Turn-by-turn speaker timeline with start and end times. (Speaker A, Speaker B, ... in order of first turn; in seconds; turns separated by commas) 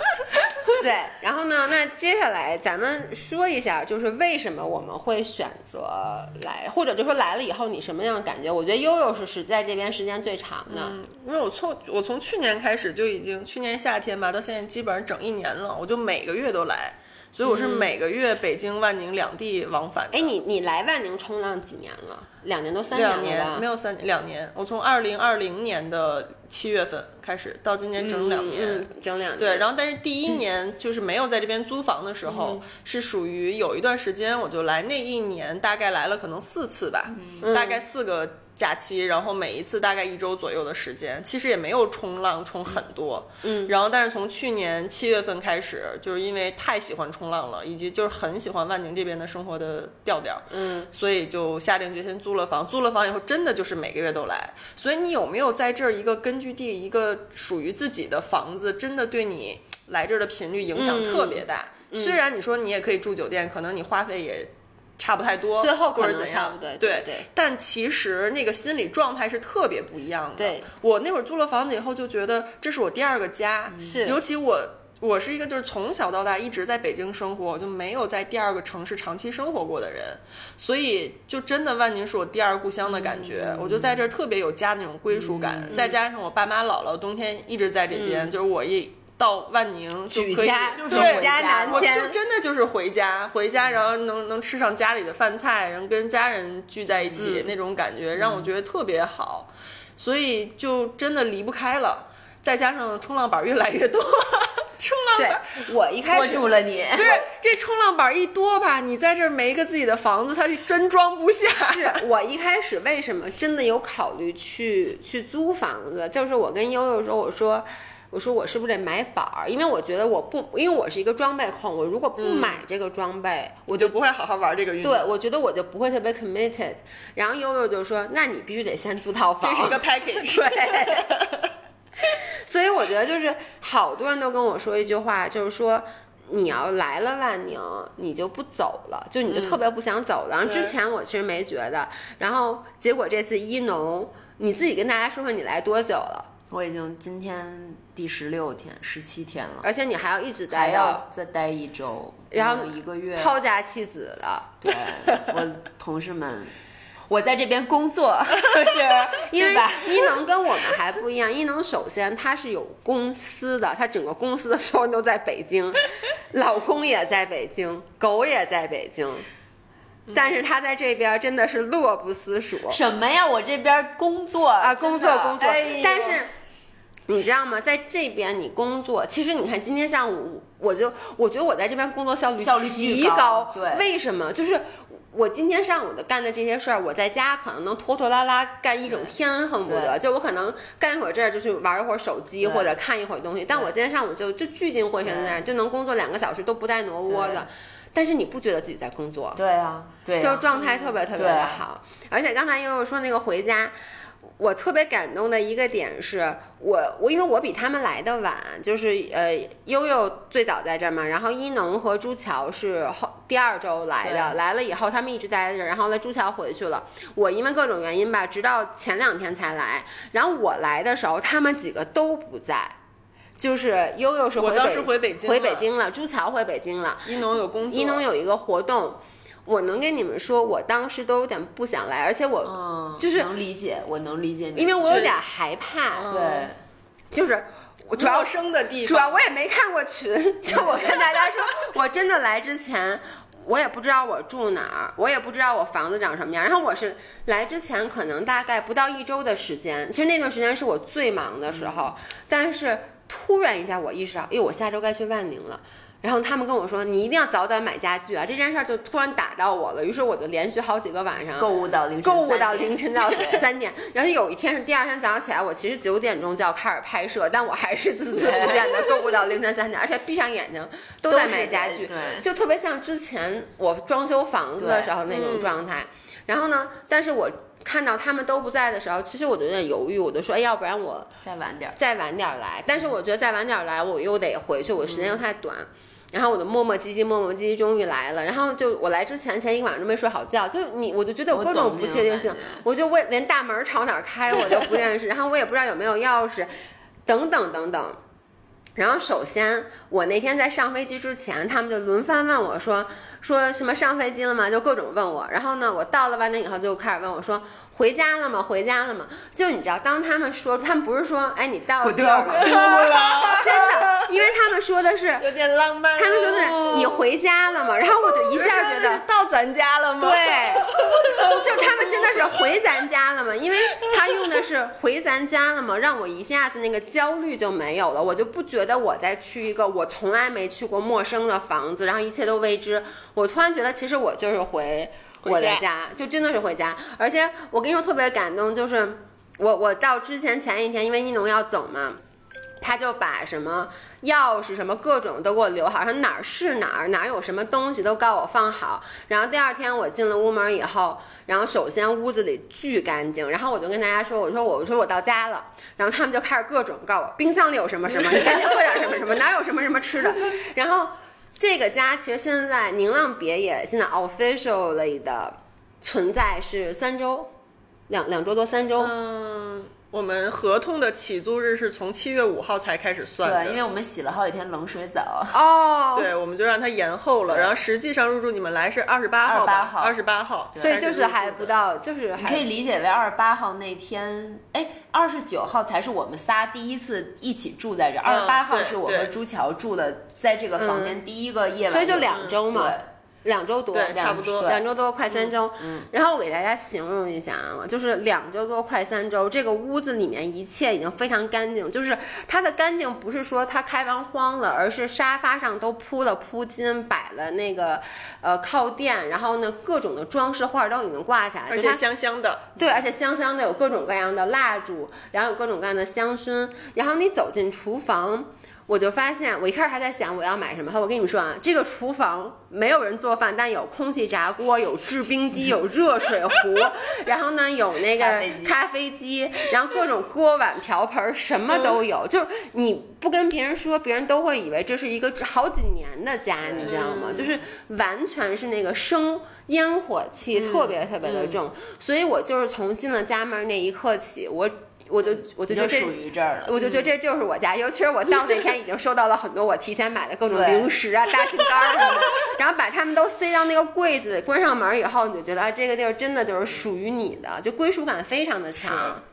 Speaker A: 0.7-11.0, Speaker B: 10.7-20.3, Speaker A: 17.4-17.9, Speaker A: 20.1-23.7, Speaker B: 22.9-105.6, Speaker A: 28.0-29.7, Speaker A: 32.2-32.6, Speaker A: 37.4-37.8, Speaker A: 43.4-43.7, Speaker A: 50.5-50.9, Speaker A: 60.8-62.2, Speaker A: 65.6-67.3, Speaker A: 70.4-70.7, Speaker A: 73.8-74.2, Speaker C: 83.0-84.0, Speaker C: 85.1-85.9, Speaker A: 85.7-86.0, Speaker A: 87.9-88.4, Speaker A: 90.1-92.2, Speaker C: 90.7-92.0, Speaker A: 97.2-97.5, Speaker C: 98.2-98.5, Speaker A: 105.2-107.2, Speaker C: 106.1-107.2, Speaker B: 107.0-112.0, Speaker A: 111.6-124.0, Speaker B: 122.2-122.6, Speaker B: 123.7-125.1, Speaker A: 124.8-131.1, Speaker B: 129.4-131.5, Speaker A: 132.5-146.3, Speaker B: 139.3-139.6, Speaker B: 140.4-140.7, Speaker C: 146.5-149.7, Speaker A: 149.6-151.1, Speaker C: 150.5-153.4, Speaker A: 152.3-154.6, Speaker C: 154.6-156.5, Speaker C: 157.1-160.2, Speaker A: 159.1-165.8, Speaker A: 166.3-169.2, Speaker B: 170.1-170.3, Speaker A: 170.1-172.8, Speaker C: 172.7-175.4, Speaker A: 174.6-176.3, Speaker B: 175.4-176.2, Speaker A: 177.1-199.4, Speaker C: 182.4-183.9, Speaker C: 189.7-190.0, Speaker C: 192.4-192.7, Speaker C: 195.0-195.4, Speaker C: 197.1-197.5, Speaker C: 199.4-200.5, Speaker A: 200.2-203.7, Speaker C: 201.1-201.6, Speaker A: 204.4-222.8, Speaker C: 214.0-214.4, Speaker A: 223.4-233.3, Speaker B: 224.4-225.7, Speaker B: 227.1-228.1, Speaker C: 232.4-235.1, Speaker A: 234.6-236.1, Speaker B: 234.9-235.2, Speaker B: 235.9-236.5, Speaker C: 236.1-236.6, Speaker A: 237.1-261.5, Speaker B: 238.0-239.2, Speaker C: 261.4-263.4, Speaker A: 262.0-281.1, Speaker C: 268.2-268.8, Speaker C: 271.1-272.2, Speaker C: 274.6-274.9, Speaker B: 275.1-275.6, Speaker C: 281.2-281.8, Speaker A: 281.8-296.5, Speaker C: 291.3-292.6, Speaker A: 297.1-298.0, Speaker A: 298.8-315.3, Speaker C: 311.8-313.5, Speaker B: 312.4-314.1, Speaker B: 315.2-317.0, Speaker A: 315.9-319.0, Speaker B: 318.3-322.4, Speaker A: 320.0-342.0, Speaker B: 335.2-335.6, Speaker A: 342.6-367.3, Speaker A: 367.9-368.9, Speaker B: 368.8-373.6, Speaker C: 373.2-375.4, Speaker A: 375.3-376.1, Speaker B: 375.9-381.5, Speaker C: 377.3-377.6, Speaker C: 379.3-380.0, Speaker C: 380.5-380.8, Speaker A: 380.6-382.5, Speaker C: 382.2-392.9, Speaker B: 388.1-389.1, Speaker A: 390.6-391.0, Speaker A: 391.7-411.8, Speaker B: 392.1-392.4, Speaker B: 393.7-394.6, Speaker C: 393.9-394.6, Speaker C: 395.6-395.9, Speaker B: 411.5-412.5, Speaker A: 412.6-459.0, Speaker C: 427.9-428.6, Speaker C: 436.5-436.8, Speaker B: 436.6-437.3, Speaker B: 440.3-440.8, Speaker C: 441.0-441.4, Speaker C: 445.5-446.6, Speaker C: 450.3-450.7